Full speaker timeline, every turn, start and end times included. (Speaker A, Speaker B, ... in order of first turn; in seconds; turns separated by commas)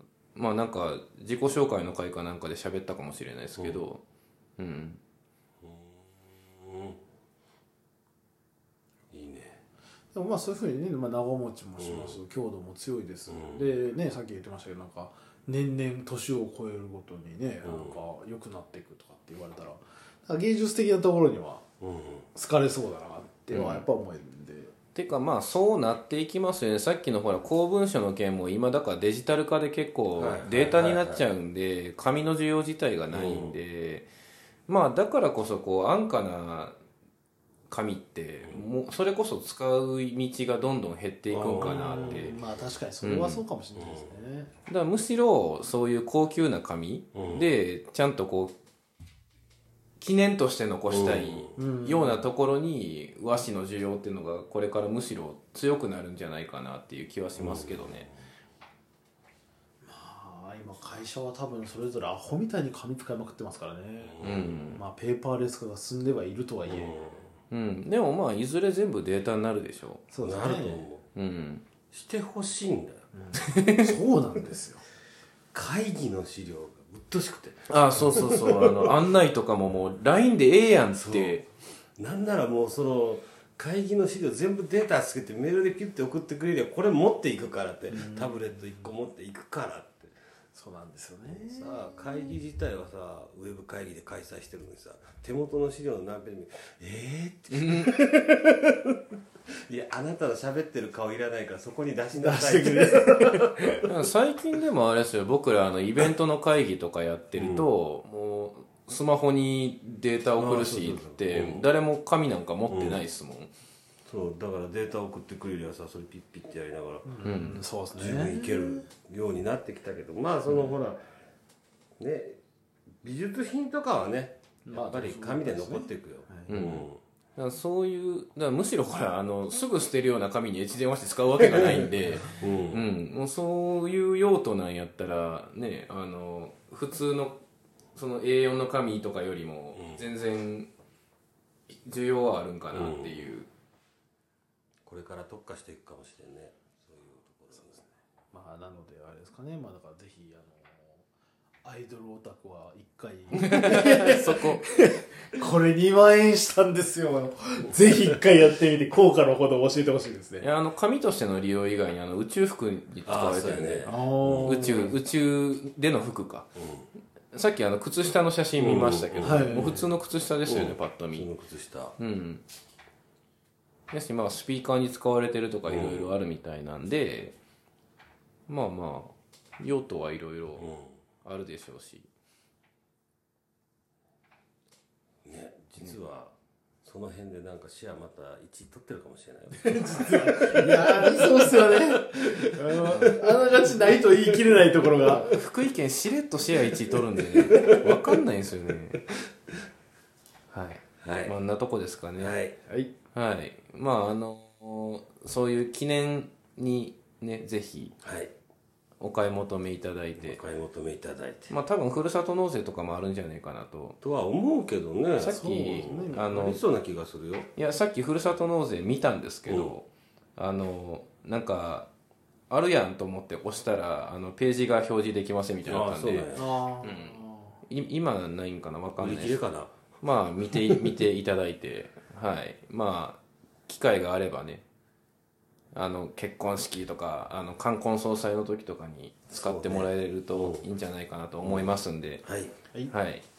Speaker A: 0.3-4.0, Speaker A: 4.6-5.0, Speaker B: 5.6-7.0, Speaker B: 9.1-9.6, Speaker C: 10.1-21.7, Speaker B: 11.8-12.2, Speaker B: 13.3-13.7, Speaker B: 17.6-18.0, Speaker B: 21.8-22.3, Speaker C: 22.4-24.7, Speaker A: 23.5-23.8, Speaker B: 23.6-23.8, Speaker A: 24.9-34.1, Speaker B: 30.1-31.2, Speaker B: 33.1-33.6, Speaker A: 34.7-36.8, Speaker A: 37.7-42.4, Speaker B: 41.3-42.4, Speaker C: 41.4-44.5, Speaker A: 43.0-43.4, Speaker B: 43.8-44.1, Speaker A: 44.7-48.5, Speaker B: 47.1-47.5, Speaker A: 50.0-58.1, Speaker B: 50.9-51.6, Speaker C: 51.6-52.3, Speaker B: 57.4-58.0, Speaker C: 59.9-67.0, Speaker B: 64.0-64.6, Speaker A: 64.2-64.8, Speaker B: 66.7-67.3, Speaker A: 67.5-70.0, Speaker B: 70.1-71.1, Speaker C: 70.1-70.9, Speaker A: 71.2-71.6, Speaker B: 71.9-73.0, Speaker C: 73.1-74.8, Speaker A: 73.4-73.9, Speaker B: 75.5-78.9, Speaker A: 77.7-81.4, Speaker B: 81.0-81.5, Speaker B: 82.0-90.1, Speaker C: 87.9-88.9, Speaker C: 90.5-92.0, Speaker B: 91.3-99.0, Speaker A: 97.5-97.9, Speaker B: 99.7-103.4, Speaker C: 102.1-103.9, Speaker A: 103.9-113.5, Speaker B: 107.3-107.7, Speaker B: 110.4-111.7, Speaker B: 112.7-113.0, Speaker B: 114.1-117.1, Speaker C: 117.0-118.8, Speaker A: 117.2-117.6, Speaker B: 118.0-121.0, Speaker B: 122.0-122.4, Speaker B: 123.0-127.0, Speaker C: 124.7-126.5, Speaker A: 126.5-137.4, Speaker B: 131.4-132.8, Speaker C: 132.1-132.3, Speaker A: 137.9-140.7, Speaker B: 139.8-140.1, Speaker A: 141.8-143.5, Speaker B: 142.7-143.2, Speaker B: 144.9-147.9, Speaker C: 148.3-151.1, Speaker C: 151.6-160.5, Speaker A: 153.4-154.6, Speaker A: 160.4-163.9, Speaker B: 163.1-164.8, Speaker C: 163.8-165.0, Speaker A: 164.4-166.5, Speaker B: 166.6-166.9, Speaker A: 167.3-171.3, Speaker B: 168.6-169.8, Speaker C: 169.2-169.8, Speaker B: 170.4-172.0, Speaker A: 172.0-172.4, Speaker A: 173.9-177.4, Speaker B: 175.7-176.1, Speaker A: 178.5-180.7, Speaker B: 180.6-180.9, Speaker A: 181.2-182.1, Speaker B: 185.2-192.2, Speaker C: 189.7-195.3, Speaker B: 192.8-193.3, Speaker A: 195.0-199.1, Speaker B: 197.4-198.1, Speaker A: 200.5-202.4, Speaker B: 201.0-201.3, Speaker B: 202.2-202.6, Speaker A: 203.1-207.9, Speaker B: 208.0-208.3, Speaker A: 209.0-210.4, Speaker B: 210.2-211.6, Speaker A: 211.5-214.0, Speaker B: 214.0-217.5, Speaker C: 215.2-216.6, Speaker A: 215.2-216.6, Speaker A: 217.6-221.9, Speaker B: 219.5-219.7, Speaker A: 222.5-226.3, Speaker B: 225.6-226.5, Speaker C: 226.3-227.6, Speaker A: 226.8-229.4, Speaker B: 229.0-229.8, Speaker A: 230.0-234.6, Speaker B: 230.6-230.9, Speaker A: 235.7-242.2, Speaker B: 239.3-240.7, Speaker B: 241.4-242.6, Speaker A: 242.9-243.2